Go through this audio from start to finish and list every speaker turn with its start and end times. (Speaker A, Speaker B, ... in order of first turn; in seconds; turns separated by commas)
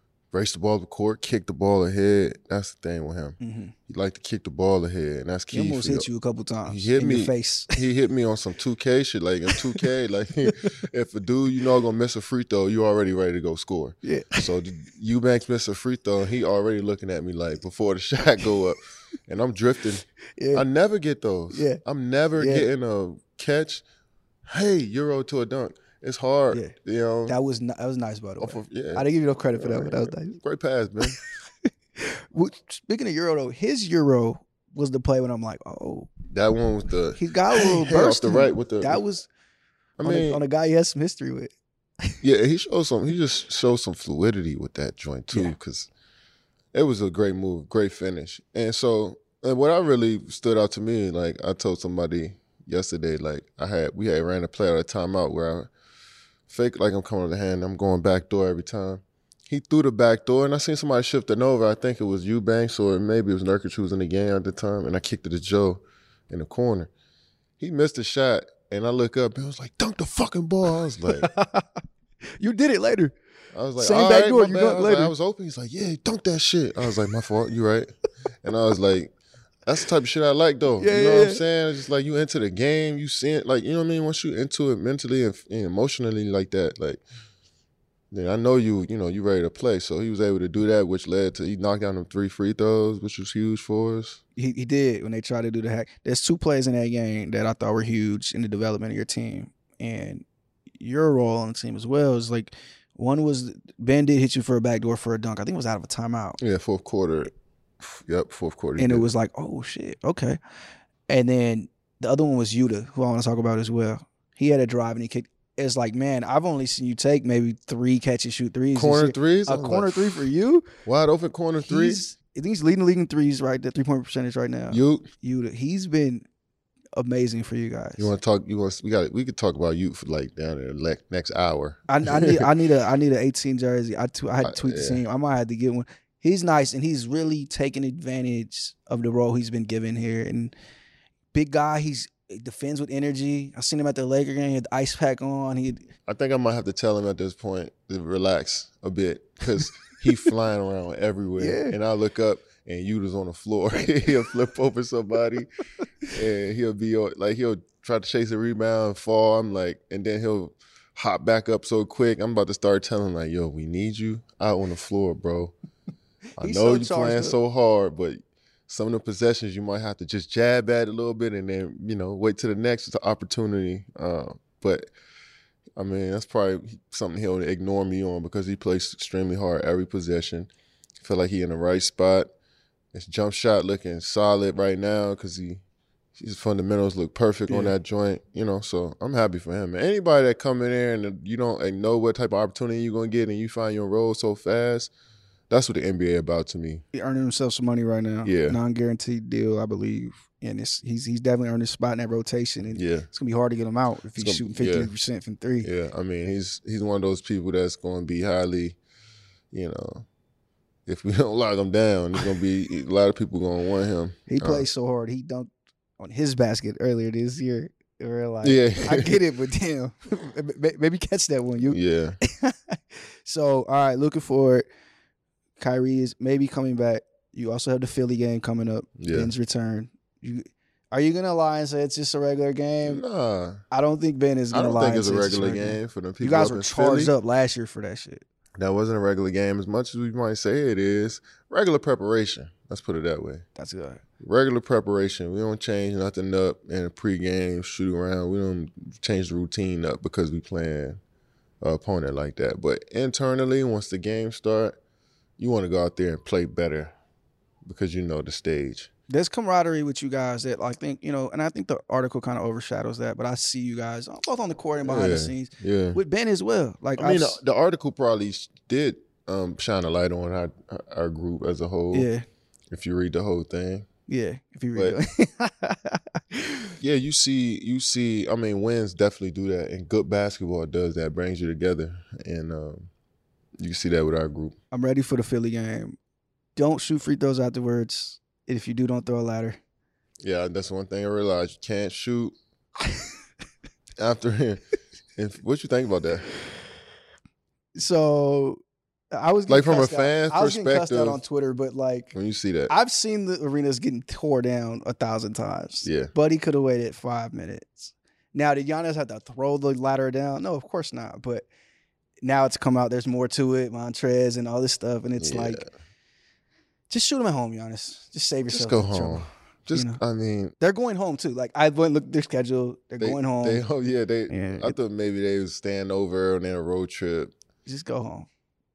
Speaker A: 0.3-6.1, Speaker B: 3.4-3.8, Speaker B: 5.5-7.8, Speaker A: 6.7-23.8, Speaker B: 9.5-9.8, Speaker B: 14.0-14.4, Speaker B: 20.4-20.6, Speaker B: 21.5-21.8, Speaker B: 22.4-22.6, Speaker A: 24.5-27.4, Speaker B: 27.3-30.4, Speaker A: 28.4-31.2, Speaker B: 32.0-36.1, Speaker A: 36.3-39.0, Speaker B: 37.2-39.3, Speaker A: 40.0-40.4, Speaker B: 40.0-41.5, Speaker A: 42.2-45.9, Speaker B: 45.3-45.6, Speaker A: 46.7-55.7, Speaker A: 56.5-66.9, Speaker A: 67.6-71.3, Speaker B: 71.1-71.7, Speaker B: 72.4-73.1, Speaker A: 73.5-77.9, Speaker B: 73.8-75.1, Speaker A: 78.4-79.1, Speaker A: 79.7-87.0, Speaker B: 80.8-81.4, Speaker A: 88.1-94.2, Speaker B: 94.4-100.2, Speaker B: 100.8-106.4, Speaker A: 106.4-109.1, Speaker B: 108.8-110.4, Speaker B: 111.1-120.7, Speaker A: 118.8-120.2, Speaker A: 120.8-122.0, Speaker B: 121.6-126.2, Speaker A: 124.7-125.1, Speaker B: 127.0-128.1, Speaker A: 128.0-132.5, Speaker B: 131.9-140.5, Speaker A: 134.4-135.0, Speaker B: 141.3-145.9, Speaker A: 146.1-155.5, Speaker B: 151.4-151.8, Speaker A: 156.1-165.5, Speaker A: 166.4-174.9, Speaker B: 166.4-167.4, Speaker A: 175.8-182.3, Speaker A: 182.9-185.6, Speaker A: 186.2-194.9, Speaker B: 187.5-187.7, Speaker A: 195.5-196.8, Speaker B: 196.9-205.7, Speaker A: 198.2-198.6, Speaker A: 202.8-203.1, Speaker A: 204.2-204.9, Speaker A: 205.6-208.8, Speaker A: 209.5-210.1, Speaker A: 210.9-214.7, Speaker B: 214.3-224.6, Speaker A: 218.4-219.2, Speaker A: 221.7-222.2, Speaker B: 225.6-233.0, Speaker A: 229.0-229.3, Speaker A: 232.8-233.6, Speaker B: 233.7-238.2, Speaker A: 234.5-237.1, Speaker A: 238.6-243.4, Speaker B: 243.6-244.0, Speaker A: 244.2-251.0, Speaker A: 251.6-254.8, Speaker A: 255.4-256.9, Speaker A: 257.6-258.9, Speaker B: 259.1-267.4, Speaker A: 264.8-266.0, Speaker A: 267.0-272.1, Speaker B: 271.9-272.2, Speaker A: 272.7-273.9, Speaker B: 274.1-276.8, Speaker A: 276.8-282.9, Speaker A: 283.6-284.6, Speaker B: 284.7-286.0, Speaker B: 286.6-289.6, Speaker A: 290.2-292.3, Speaker A: 294.0-294.6, Speaker A: 295.2-296.3, Speaker B: 297.8-298.6, Speaker B: 299.1-302.1, Speaker A: 299.5-301.2, Speaker A: 302.1-302.7, Speaker B: 302.7-311.4, Speaker A: 305.8-306.1, Speaker B: 312.2-315.6, Speaker A: 315.2-315.7, Speaker B: 316.9-320.0, Speaker A: 318.5-320.6, Speaker B: 320.6-323.6, Speaker A: 323.0-327.3, Speaker B: 324.3-324.8, Speaker B: 327.7-328.3